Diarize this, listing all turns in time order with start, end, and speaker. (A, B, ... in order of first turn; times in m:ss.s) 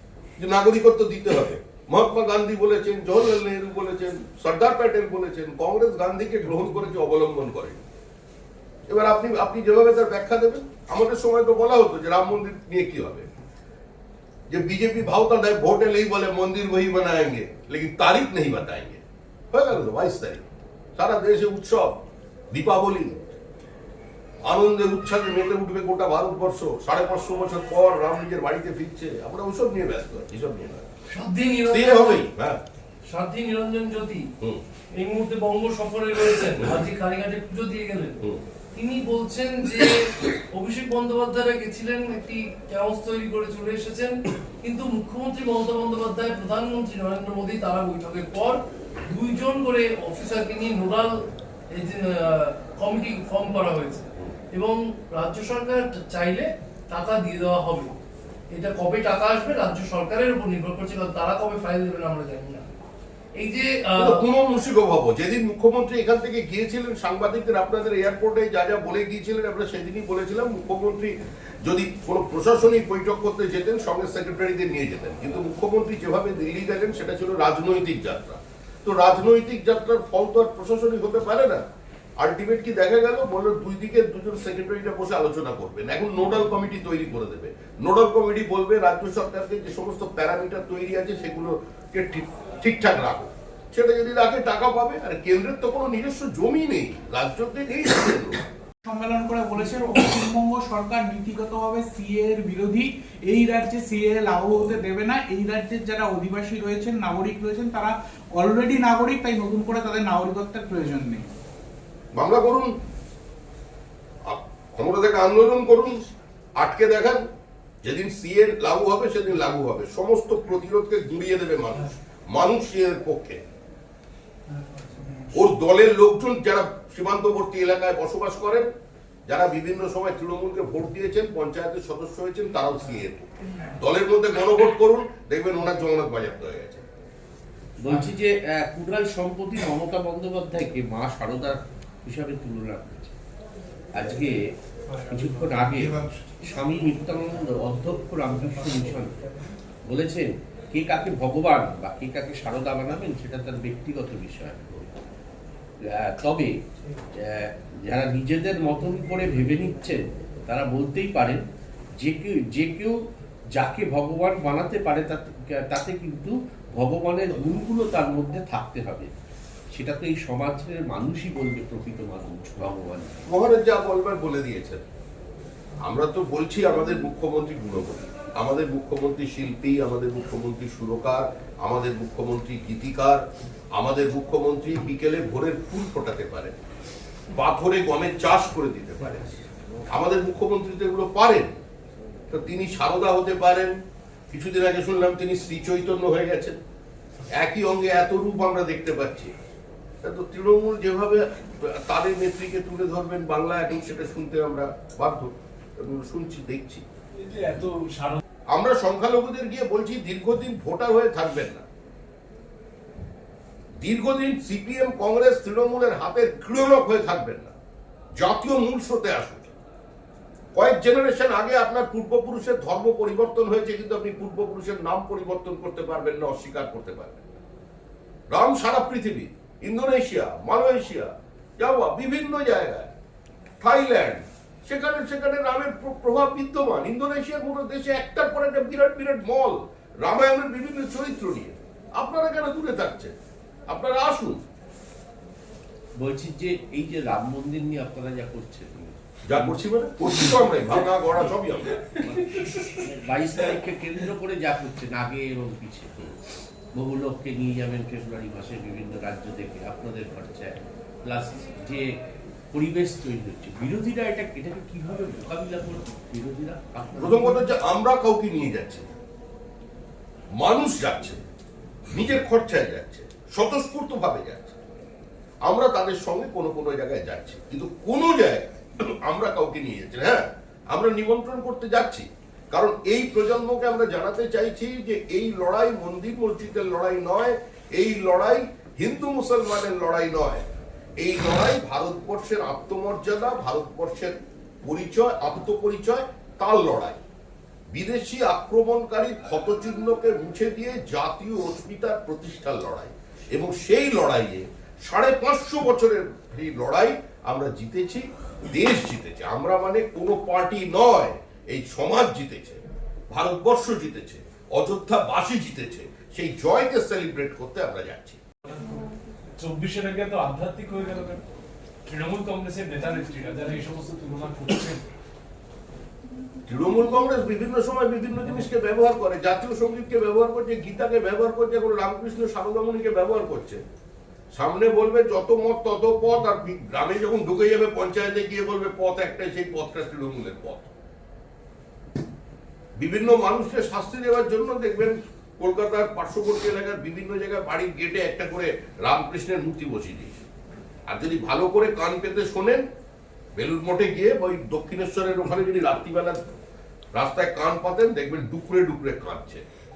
0:00.4-0:07.8 A
0:08.9-0:13.2 A
0:14.5-0:20.4 A
0:21.0-0:22.0 A
0:22.5-0:23.3 A
0:24.4-0:30.8 A
0:31.1-0:32.2 B
0:31.7-0:32.6 A
0:33.1-0:34.2 B
0:35.0-0:38.2 B
0:38.7-0:44.1 B
0:44.6-0:51.1 B
0:51.7-0:57.9 B
0:58.5-1:02.6 B
1:03.4-1:04.2 B
1:04.0-1:11.1 A
1:11.6-1:21.6 A
1:22.2-1:38.4 A
1:38.9-1:51.3 C
1:52.2-1:52.7 A
1:54.2-1:56.0 A
1:56.6-1:57.2 A
1:57.8-2:03.4 A
2:05.3-2:08.7 A
2:09.3-2:16.8 A
2:17.8-2:23.1 D
2:23.9-2:24.4 D
2:25.1-2:29.2 D
2:29.9-2:34.9 D
2:35.9-2:36.5 D
2:37.2-2:41.4 D
2:42.0-2:43.0 D
2:43.5-2:49.1 D
2:49.7-2:53.2 D
2:53.3-2:54.8 A
2:55.8-3:03.2 A
3:03.8-3:06.5 A
3:07.3-3:09.4 A
3:09.9-3:11.5 A
3:12.3-3:13.7 A
3:14.3-3:16.6 A
3:17.3-3:19.3 A
3:20.0-3:26.8 A
3:27.2-3:28.2 E
3:28.5-3:31.6 A
3:33.8-3:37.5 A
3:38.2-3:39.5 A
3:40.5-3:47.3 A
3:48.3-3:52.9 A
3:53.6-4:03.1 A
4:03.7-4:04.4 A
4:06.0-4:09.6 D
4:09.3-4:11.8 A
4:12.0-4:16.0 D
4:16.7-4:21.9 D
4:22.5-4:27.5 D
4:27.0-4:28.8 A
4:30.4-4:31.2 A
4:31.9-4:34.6 A
4:35.4-4:50.4 A
4:51.0-4:57.0 A
4:57.7-5:18.2 A
5:19.4-5:21.2 E
5:21.8-5:24.8 E
5:26.4-5:33.6 A
5:34.3-5:40.7 A
5:42.8-5:50.2 A
5:50.9-5:52.6 A
5:53.4-5:56.3 A
5:56.9-5:59.4 A